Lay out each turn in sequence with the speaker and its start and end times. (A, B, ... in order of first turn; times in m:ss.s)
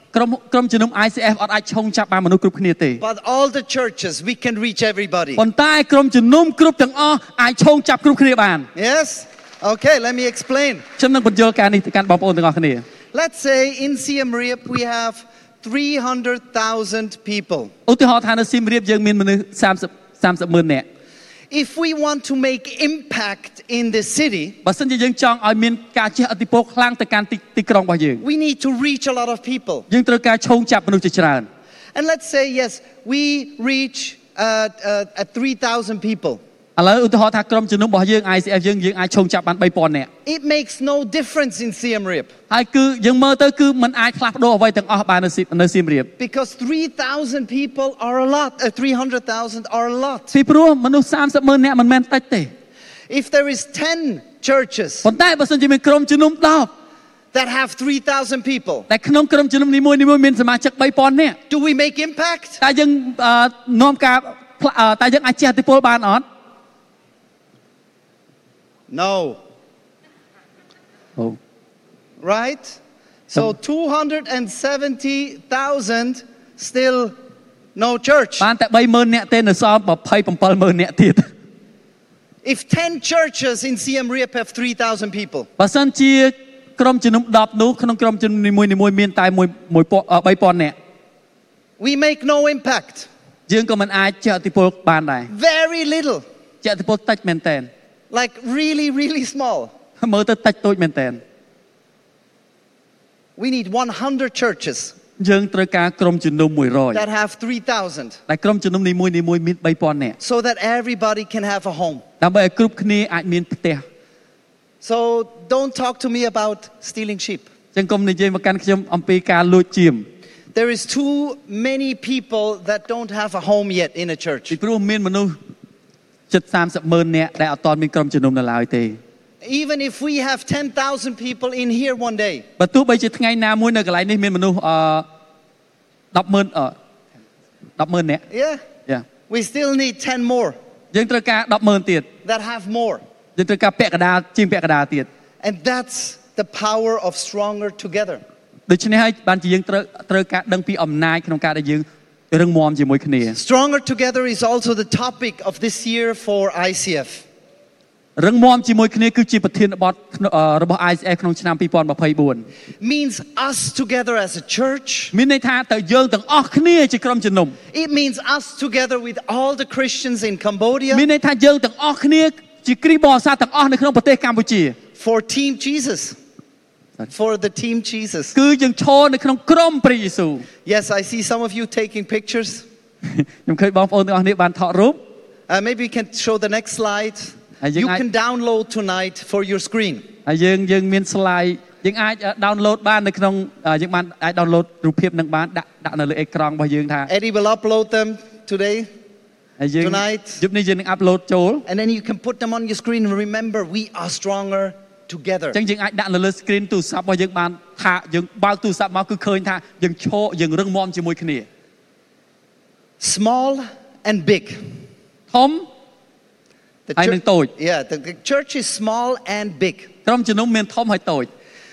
0:00.1-0:03.0 A
0:03.0-0:05.4 B
0:05.4-0:08.7 A
0:08.7-0:10.8 B
0:11.0-0:12.8 A
0:13.1-0:17.7 B
0:17.9-0:20.8 A
0:21.5-0:24.6 B
0:24.6-0:28.2 A
0:28.2-0:29.8 B
0:29.9-0:31.5 A
0:31.9-0:36.4 B
0:36.8-0:40.1 A
0:40.2-0:42.3 B
0:42.5-0:46.1 A
0:46.2-0:50.3 B
0:50.3-0:52.5 A
0:53.1-0:55.1 B
0:55.0-0:56.7 A
0:57.3-0:58.9 B
0:58.9-1:01.4 A
1:01.5-1:02.6 B
1:02.6-1:06.2 A
1:08.9-1:09.4 B
1:12.2-1:17.1 B
1:17.8-1:18.4 B
1:18.4-1:21.3 A
1:22.4-1:25.5 B
1:25.6-1:30.7 A
1:31.8-1:33.1 B
1:33.5-1:35.3 A
1:35.3-1:36.2 B
1:36.6-1:37.7 A
1:38.1-1:39.7 B
1:40.0-1:41.2 A
1:43.4-1:44.9 B
1:45.2-1:47.0 A
1:46.9-1:48.2 B
1:48.3-1:50.2 A
1:50.2-1:52.0 B
1:52.2-1:53.8 A
1:54.8-1:57.5 B
1:57.7-2:00.1 A
2:00.5-2:04.6 B
2:04.5-2:05.4 A
2:06.3-2:09.0 A
2:09.4-2:12.4 B
2:12.6-2:15.0 A
2:16.1-2:16.8 A
2:17.8-2:18.2 A
2:18.3-2:18.6 B
2:19.3-2:20.6 B
2:20.9-2:22.1 A
2:22.2-2:23.0 B
2:23.4-2:25.1 A
2:25.4-2:28.2 B
2:28.7-2:33.4 A
2:33.3-2:37.2 B
2:38.2-2:42.5 A
2:42.8-2:45.1 B
2:45.1-2:47.6 A
2:47.7-2:51.0 B
2:50.9-2:54.8 A
2:55.0-2:56.2 B
2:57.1-2:58.4 B
2:58.3-3:00.4 A
3:00.6-3:02.6 B
3:03.0-3:05.0 A
3:05.5-3:10.0 B
3:07.6-3:08.0 A
3:10.2-3:17.1 A
3:17.1-3:18.9 B
3:19.6-3:21.6 A
3:19.8-3:20.4 B
3:21.6-3:25.6 B
3:25.5-3:31.5 A
3:33.0-3:34.8 B
3:35.3-3:35.7 A
3:36.9-3:39.9 B
3:37.0-3:37.5 A
3:40.0-3:41.3 A